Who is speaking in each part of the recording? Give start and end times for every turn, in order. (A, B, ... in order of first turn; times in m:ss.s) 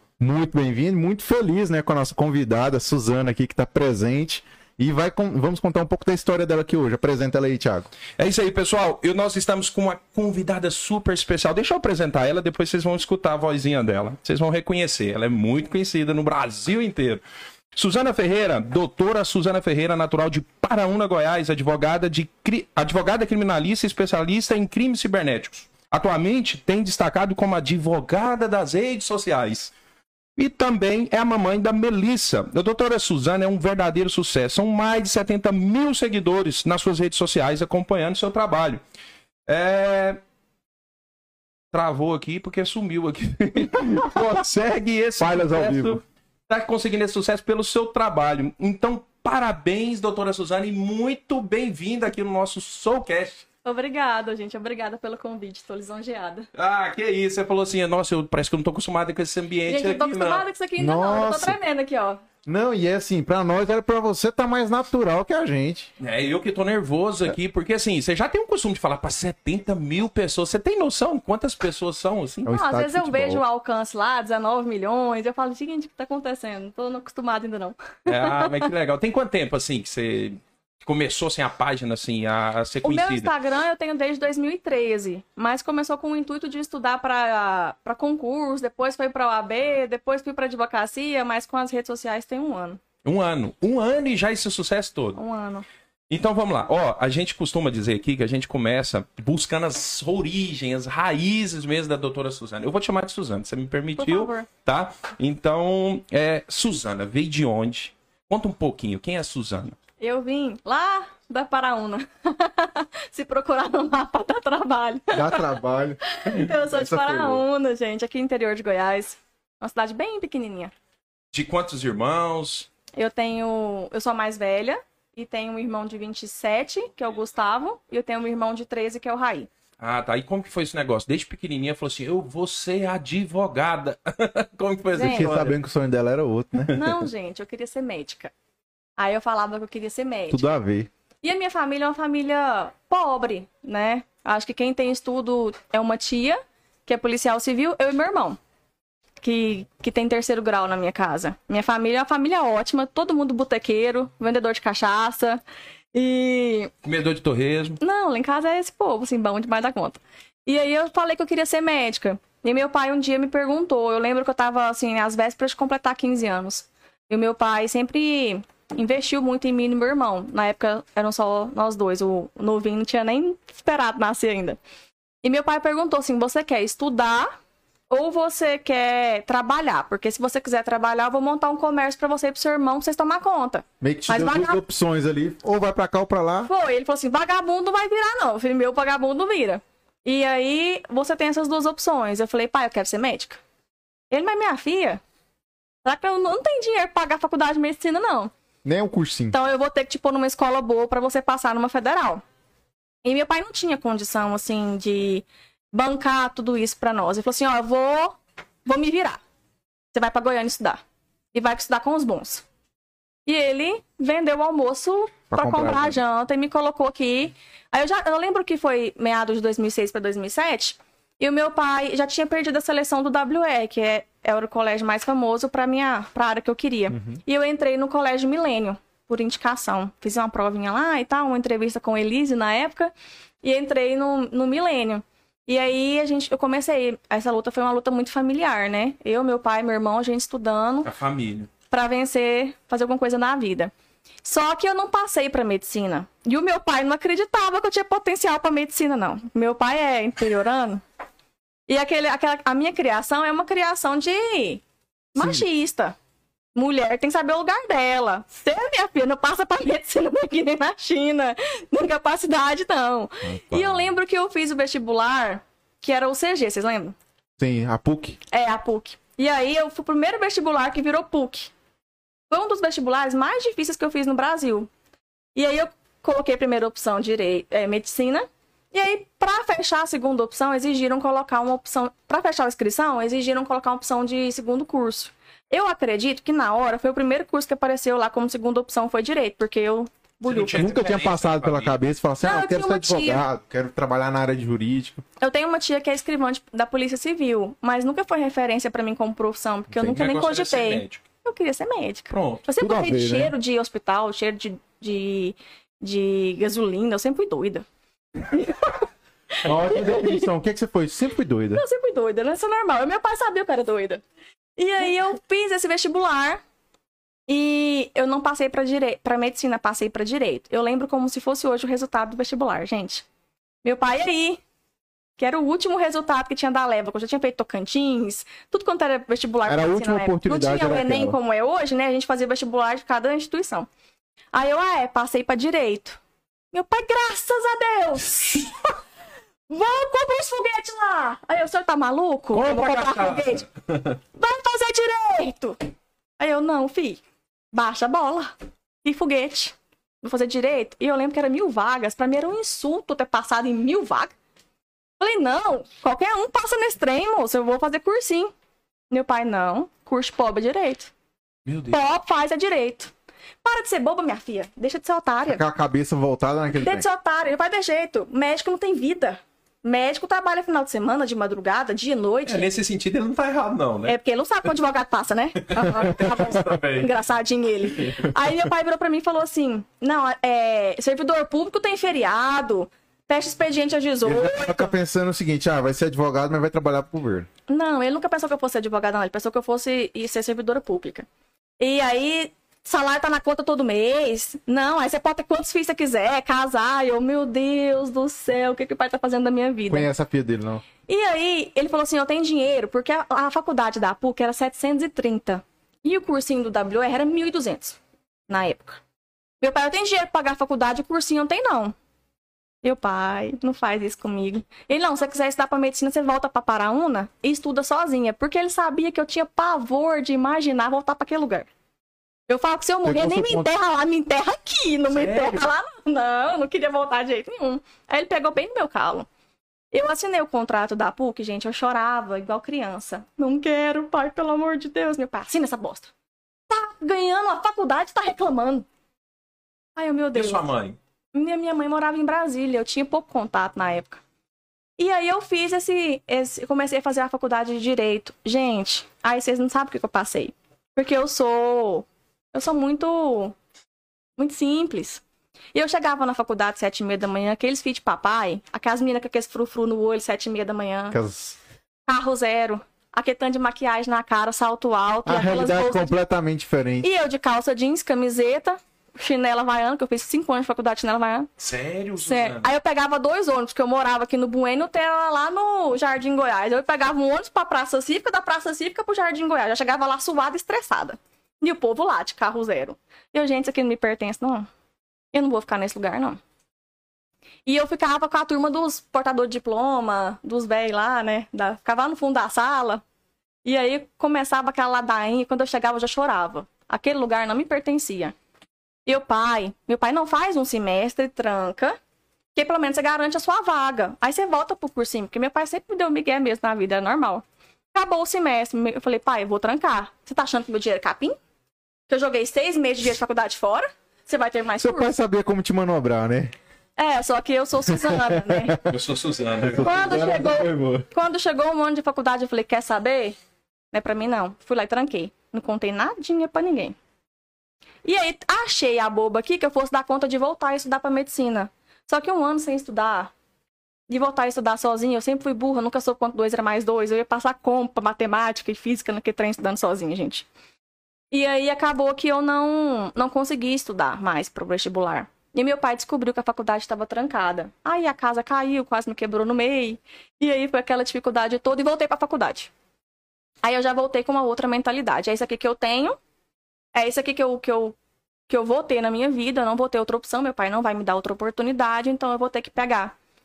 0:00.2-0:07.9 A
0:08.2-0:17.2 B
0:17.7-0:29.7 B
0:30.4-0:38.8 B
0:39.5-0:40.2 B
0:41.7-0:53.4 B
0:45.2-0:46.0 A
0:53.6-0:56.5 C
0:56.5-1:00.4 B
0:59.7-1:02.2 C
1:00.8-1:01.6 A
1:02.4-1:05.9 A
1:06.0-1:12.5 B
1:12.4-1:13.4 A
1:12.5-1:18.7 C
1:18.1-1:23.3 B
1:22.8-1:32.8 C
1:33.0-1:35.2 B
1:35.2-1:35.7 C
1:36.1-1:49.8 B
1:44.0-1:44.5 C
1:50.0-1:55.4 C
1:55.1-1:57.4 A
1:56.1-2:00.7 C
2:01.3-2:02.7 B
2:03.0-2:09.5 C
2:09.8-2:15.6 B
2:14.9-2:15.3 C
2:15.0-2:16.8 A
2:16.7-2:18.3 C
2:19.0-2:20.4 C
2:20.3-2:20.9 A
2:21.2-2:28.4 C
2:29.2-2:35.4 C
2:35.9-2:36.7 C
2:36.8-2:37.8 B
2:37.8-2:54.6 C
2:55.2-2:57.3 C
2:57.9-3:04.6 C
3:03.8-3:06.5 A
3:06.4-3:13.4 C
3:14.1-3:15.0 C
3:15.8-3:18.3 C
3:18.6-3:19.3 A
3:19.3-3:22.2 C
3:23.0-3:29.2 C
3:29.9-3:30.8 C
3:31.3-3:32.4 C
3:33.2-3:52.9 C
3:35.3-3:36.0 A
3:46.9-3:47.2 A
3:53.4-4:00.9 C
4:00.8-4:01.5 B
4:01.7-4:03.7 C
4:04.2-4:10.8 C
4:11.7-4:14.6 C
4:15.1-4:16.0 C
4:15.2-4:15.4 A
4:16.6-4:27.0 C
4:23.2-4:23.9 A
4:27.4-4:28.2 A
4:28.3-4:31.5 C
4:32.3-4:34.7 C
4:35.3-4:50.7 C
4:50.2-4:51.8 B
4:50.6-4:55.0 A
4:52.2-4:53.2 C
4:55.2-5:07.6 C
4:59.7-5:01.0 B
5:02.1-5:02.4 B
5:02.6-5:03.3 A
5:09.4-5:10.3 C
5:09.4-5:11.6 A
5:11.5-5:14.0 C
5:14.6-5:16.4 C
5:17.3-5:23.0 C
5:23.6-5:24.4 C
5:25.2-5:33.7 C
5:29.4-5:31.2 A
5:34.3-5:36.0 C
5:36.5-5:38.5 C
5:39.5-5:43.4 C
5:42.3-5:44.0 B
5:44.1-5:45.6 C
5:46.2-5:47.0 C
5:47.5-5:54.1 C
5:55.0-5:58.3 C
5:58.9-6:00.9 C
6:01.4-6:01.8 B
6:01.7-6:02.9 C
6:03.4-6:05.4 C
6:05.2-6:06.9 A
6:06.6-6:12.5 C
6:12.2-6:14.0 B
6:13.9-6:24.7 C
6:15.5-6:16.9 B
6:24.0-6:27.3 A
6:27.5-6:31.1 C
6:31.6-6:39.9 C
6:39.7-6:40.6 A
6:40.9-6:48.8 C
6:49.4-6:51.8 C
6:52.6-7:01.5 C
7:02.3-7:09.1 C
7:02.8-7:03.5 A
7:04.9-7:05.4 B
7:09.7-7:15.9 C
7:16.5-7:18.6 C
7:19.8-7:20.4 C
7:20.1-7:20.8 B
7:21.1-7:24.0 C
7:24.8-7:33.4 C
7:34.2-7:35.0 C
7:35.5-7:41.0 C
7:40.9-7:41.4 A
7:41.9-7:46.0 C
7:45.1-7:46.9 A
7:46.8-7:51.3 C
7:51.4-7:52.5 B
7:52.0-8:04.5 C
8:05.1-8:06.2 C
8:07.5-8:12.8 C
8:13.4-8:18.1 C
8:18.9-8:21.8 C
8:22.4-8:31.2 C
8:31.9-8:34.9 C
8:34.6-8:36.4 A
8:36.8-8:38.6 C
8:37.8-8:38.7 A
8:38.7-8:39.8 B
8:39.4-8:40.9 A
8:39.6-8:43.2 C
8:43.7-8:46.8 C
8:47.8-8:53.1 C
8:53.9-9:00.3 C
9:01.1-9:12.5 C
9:13.4-9:16.0 C
9:16.8-9:17.8 C
9:18.3-9:22.9 C